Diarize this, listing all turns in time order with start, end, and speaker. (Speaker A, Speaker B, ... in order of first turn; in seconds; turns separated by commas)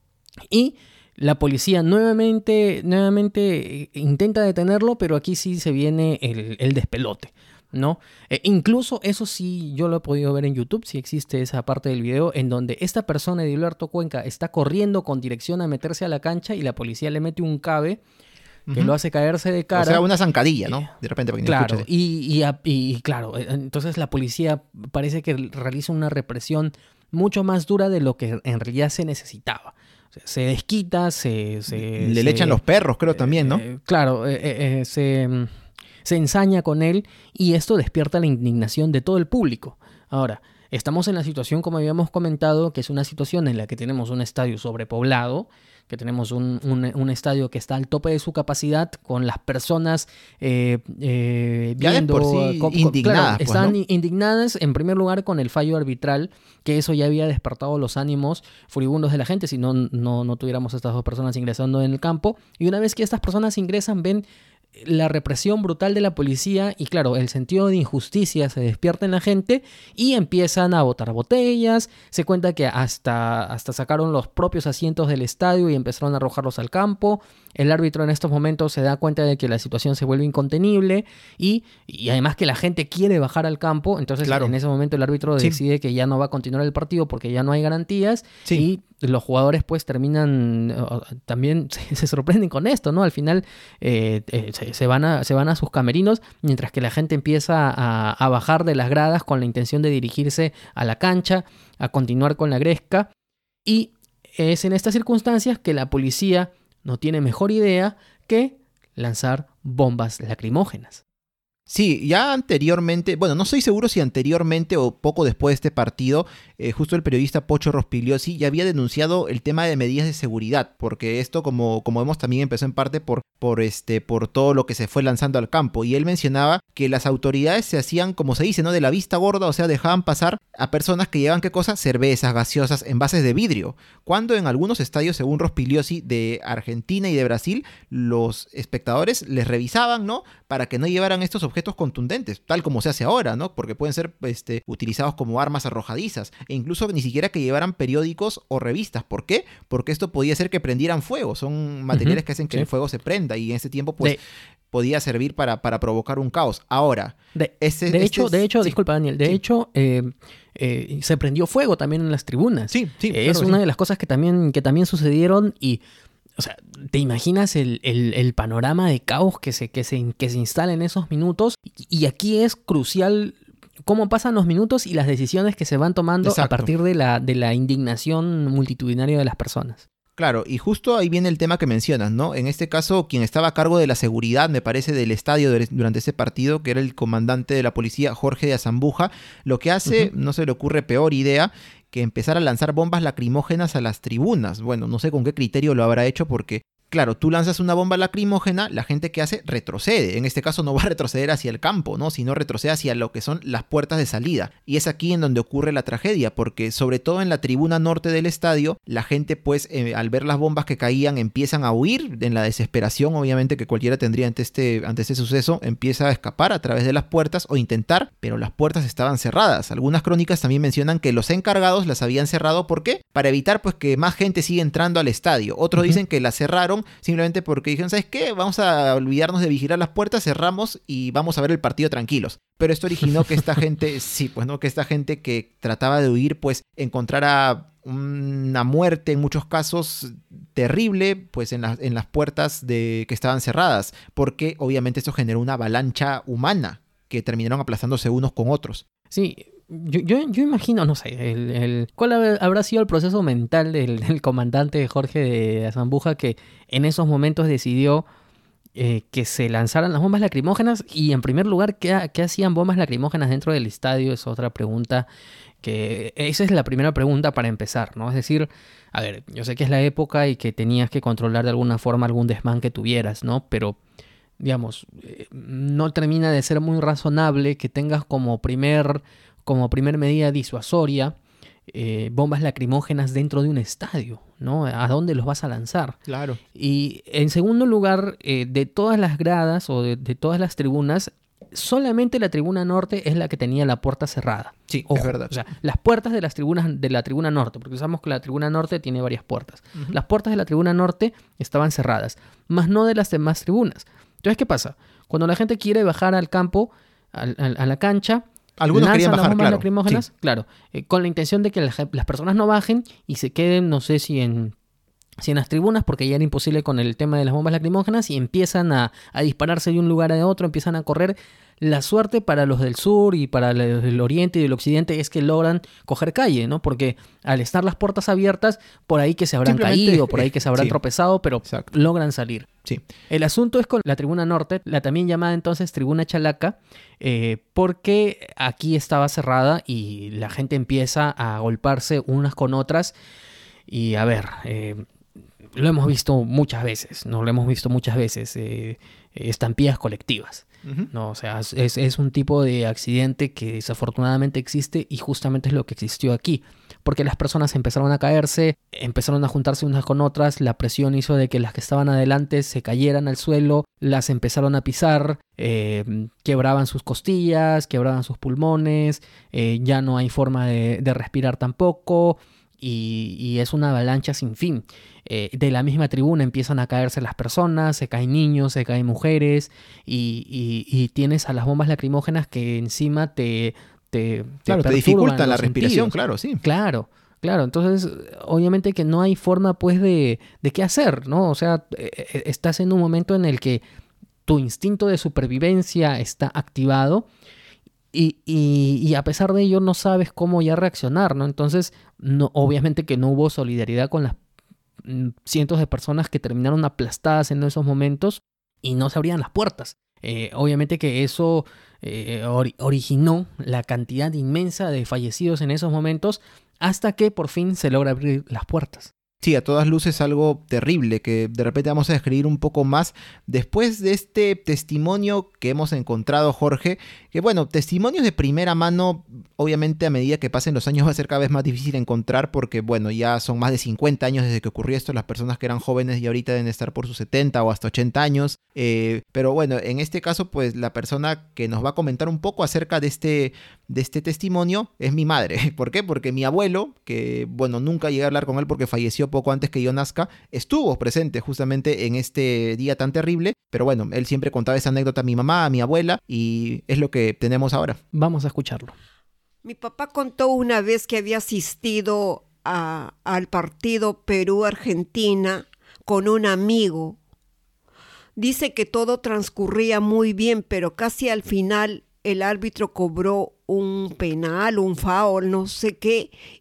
Speaker A: 0.5-18.0, Speaker B: 18.7-18.9, Speaker A: 18.7-20.0, Speaker B: 19.7-21.9, Speaker A: 21.4-32.6, Speaker B: 31.7-33.6, Speaker A: 33.1-35.5, Speaker A: 36.0-64.2, Speaker B: 51.8-53.8, Speaker A: 64.8-103.1, Speaker B: 84.2-84.5, Speaker A: 103.7-111.0, Speaker B: 111.7-154.2, Speaker A: 151.9-152.7, Speaker B: 154.7-159.4, Speaker A: 157.3-165.8, Speaker B: 162.7-163.6, Speaker A: 166.4-179.8, Speaker B: 176.2-176.7, Speaker B: 180.2-248.8, Speaker A: 249.1-258.0, Speaker A: 258.8-265.1, Speaker A: 265.6-273.8, Speaker A: 274.4-281.1, Speaker A: 281.7-286.0, Speaker B: 286.1-286.4, Speaker A: 286.5-314.5, Speaker B: 294.7-295.4, Speaker B: 308.6-310.0, Speaker A: 315.2-332.5, Speaker B: 329.4-330.8, Speaker B: 331.4-331.7, Speaker A: 333.1-342.9, Speaker A: 343.7-344.8, Speaker A: 345.6-393.6, Speaker B: 384.5-386.4, Speaker A: 394.2-397.1, Speaker A: 397.9-404.2, Speaker A: 404.8-418.9, Speaker B: 419.2-457.8, Speaker A: 457.9-458.7, Speaker C: 459.4-467.0, Speaker C: 468.2-476.1